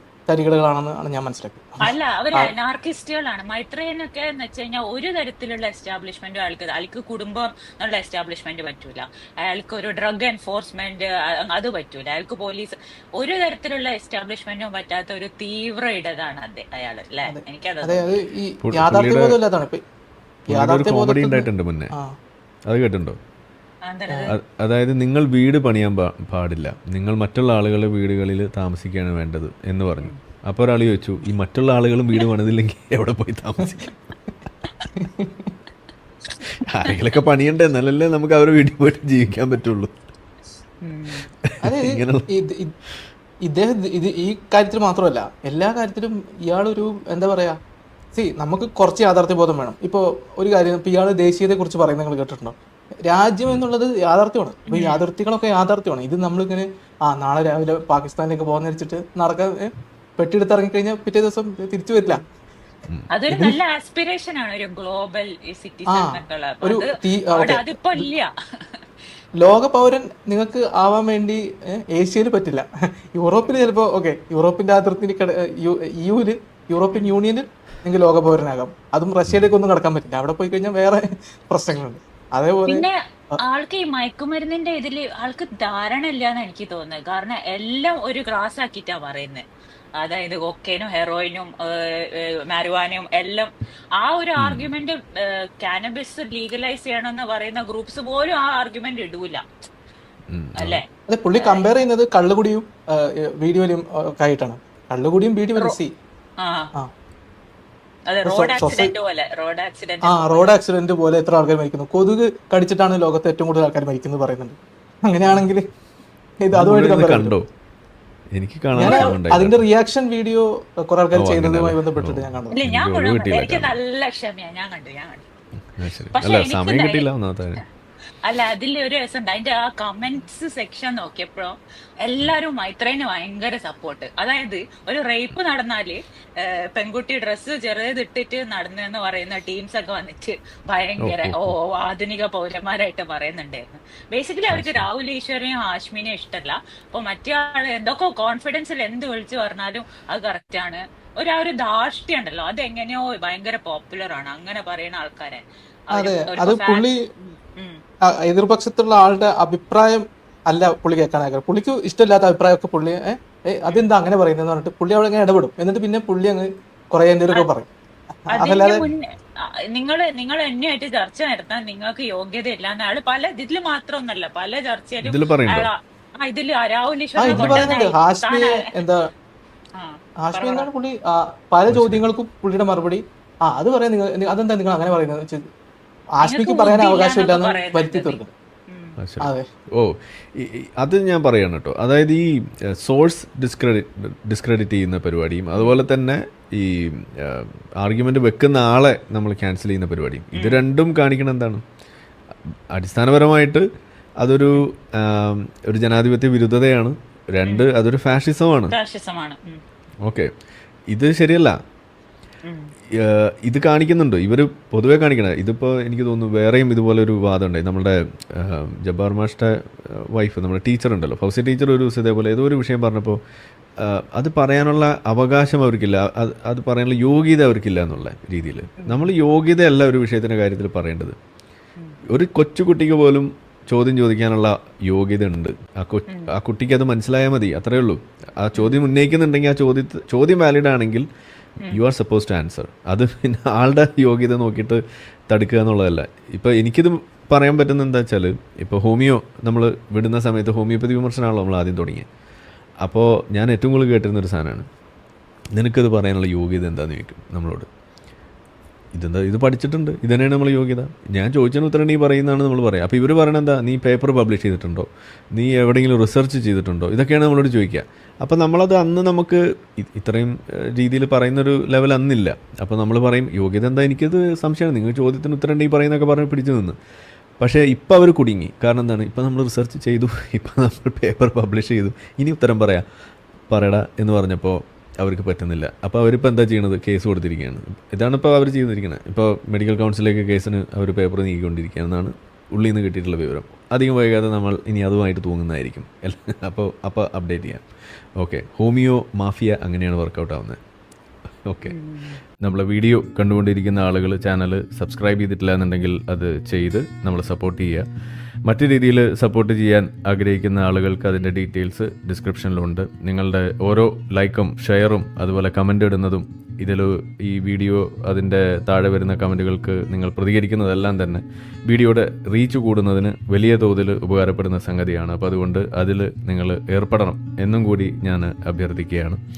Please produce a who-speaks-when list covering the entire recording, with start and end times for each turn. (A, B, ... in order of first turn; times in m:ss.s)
0:00.3-0:02.5 A
0:01.8-0:18.2 B
0:17.3-0:19.8 A
0:18.6-0:19.4 C
0:20.5-0:22.1 A
0:20.5-0:21.9 C
0:22.7-0:23.2 C
0:23.8-0:24.3 B
0:24.3-0:33.9 C
0:35.0-0:35.5 A
0:36.6-0:39.9 C
0:40.8-0:41.3 B
0:41.6-0:42.7 A
0:41.6-0:42.3 C
0:43.4-0:47.6 A
0:48.1-0:52.5 A
0:53.1-1:02.2 A
0:54.7-0:55.0 B
1:03.1-1:08.8 B
1:03.3-1:03.6 A
1:05.9-1:08.1 A
1:09.4-1:22.8 A
1:19.3-1:19.5 C
1:22.7-1:29.4 B
1:30.0-1:39.4 B
1:34.4-1:34.7 C
1:40.3-1:40.8 C
1:40.6-1:41.6 B
1:41.1-1:45.9 A
1:46.4-1:46.7 B
1:48.1-1:50.5 B
1:48.2-1:48.9 A
1:50.0-1:55.6 A
1:56.4-1:57.4 A
1:56.5-1:57.4 C
1:58.3-1:59.6 C
1:58.7-2:02.6 A
1:58.8-1:59.1 B
2:01.1-2:03.8 C
2:02.5-2:05.2 B
2:05.8-2:07.6 C
2:06.1-2:07.1 B
2:08.2-2:16.0 B
2:16.7-2:37.8 B
2:21.0-2:21.5 C
2:24.5-2:24.8 C
2:35.9-2:36.9 A
2:38.2-2:47.7 A
2:48.3-2:48.8 A
2:48.3-2:49.1 B
2:49.7-2:58.6 B
2:55.0-2:55.7 C
2:57.2-2:59.0 A
2:57.2-2:57.8 C
2:59.8-3:00.7 B
3:00.2-3:05.5 A
3:01.7-3:02.0 C
3:06.2-3:08.3 A
3:06.2-3:09.0 B
3:09.0-3:12.2 C
3:12.8-3:21.6 C
3:15.5-3:15.8 B
3:20.3-3:20.6 B
3:22.7-3:23.6 C
3:24.2-3:28.7 C
3:28.7-3:29.6 B
3:30.9-3:31.6 C
3:32.4-3:32.7 B
3:33.0-3:43.2 C
3:43.8-3:51.1 C
3:48.8-3:49.0 B
3:52.1-4:01.0 C
3:58.5-3:58.8 B
4:01.7-4:12.0 C
4:12.8-4:14.6 C
4:15.5-4:17.6 C
4:18.9-4:36.8 C
4:37.4-4:42.8 C
4:43.5-4:57.6 C
4:58.2-5:00.6 C
5:01.4-5:01.8 C
5:01.6-5:02.2 B
5:02.4-5:07.8 C
5:08.4-5:29.2 C